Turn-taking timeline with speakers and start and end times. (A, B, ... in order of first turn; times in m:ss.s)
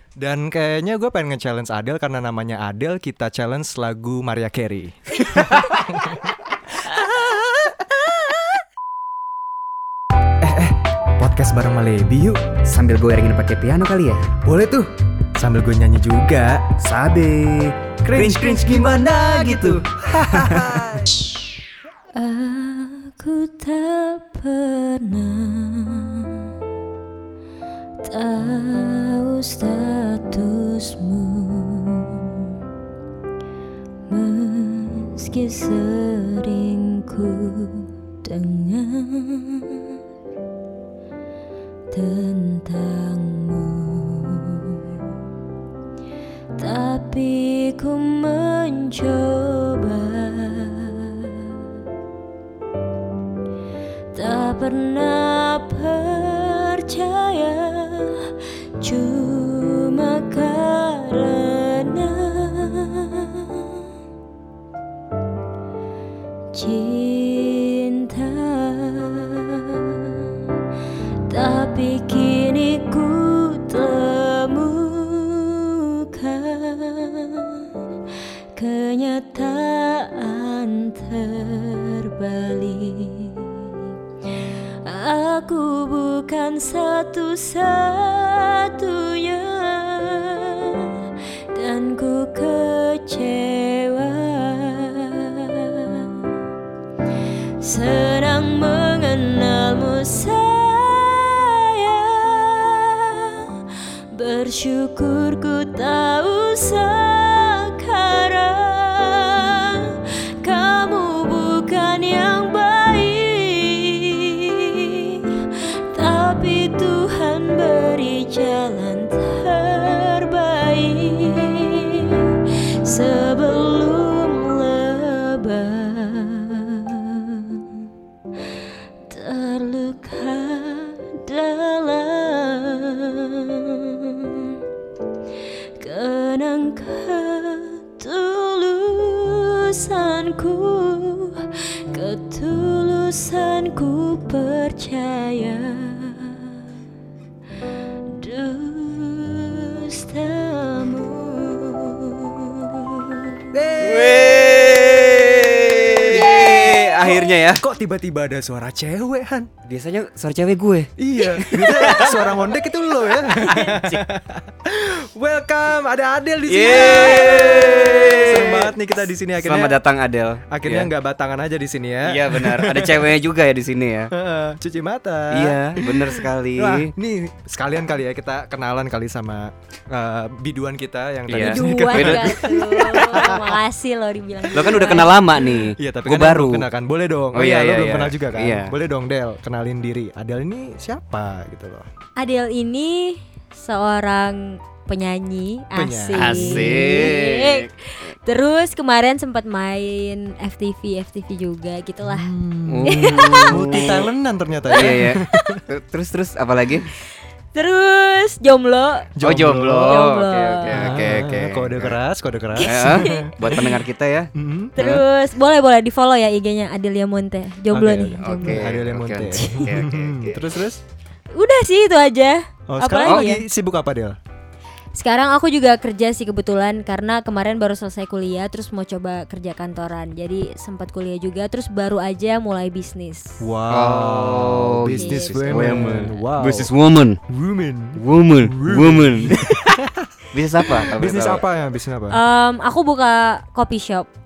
0:00.2-0:07.9 A
0:10.4-0:12.4 A
0:12.7-0:14.3 B
0:14.4-0:16.8 A
0:16.8-0:21.0 B
0:18.0-0:21.5 A
0:22.2-0:26.4 C
0:28.0-0:32.5 C
0:34.1-0:39.9 C
0:41.9-0:45.1 C
0:46.6-0:51.5 C
0:54.1-1:03.8 C
1:06.5-1:10.3 C
1:11.3-1:17.7 C
1:18.6-1:23.8 C
1:24.8-1:31.0 C
1:31.5-1:36.2 C
1:37.6-1:43.5 C
1:44.1-2:07.8 C
2:09.1-2:14.6 C
2:15.8-2:26.5 C
2:28.1-2:33.5 C
2:33.5-2:39.5 A
2:33.8-2:37.6 B
2:36.1-2:37.3 C
2:39.7-2:42.4 B
2:41.0-2:49.8 A
2:43.5-2:44.0 B
2:46.5-2:48.7 B
2:49.4-2:50.9 B
2:50.5-2:53.2 A
2:52.1-2:54.1 B
2:54.1-3:03.5 A
2:55.3-2:56.9 B
3:01.3-3:02.4 B
3:01.4-3:05.2 C
3:04.4-3:11.9 A
3:04.5-3:06.7 B
3:07.3-3:08.7 B
3:12.2-3:22.3 C
3:15.7-3:17.1 A
3:16.2-3:17.7 B
3:22.0-3:25.6 A
3:22.7-3:24.1 B
3:22.8-3:24.0 C
3:24.7-3:25.5 C
3:24.7-3:26.9 B
3:27.6-3:29.1 C
3:29.2-3:30.0 A
3:29.2-3:32.0 B
3:29.8-3:31.0 C
3:30.7-3:33.8 A
3:32.6-3:33.7 C
3:32.6-3:35.0 B
3:34.4-3:34.8 A
3:34.8-3:38.7 C
3:37.7-3:40.8 A
3:38.2-3:40.4 B
3:39.4-3:39.6 C
3:41.3-3:43.4 C
3:42.7-3:44.2 A
3:43.0-3:43.3 B
3:45.0-3:53.4 C
3:53.4-3:56.7 A
3:53.7-3:57.2 B
3:55.0-3:55.5 C
3:57.3-4:02.2 A
3:58.0-4:01.4 B
4:02.1-4:04.1 C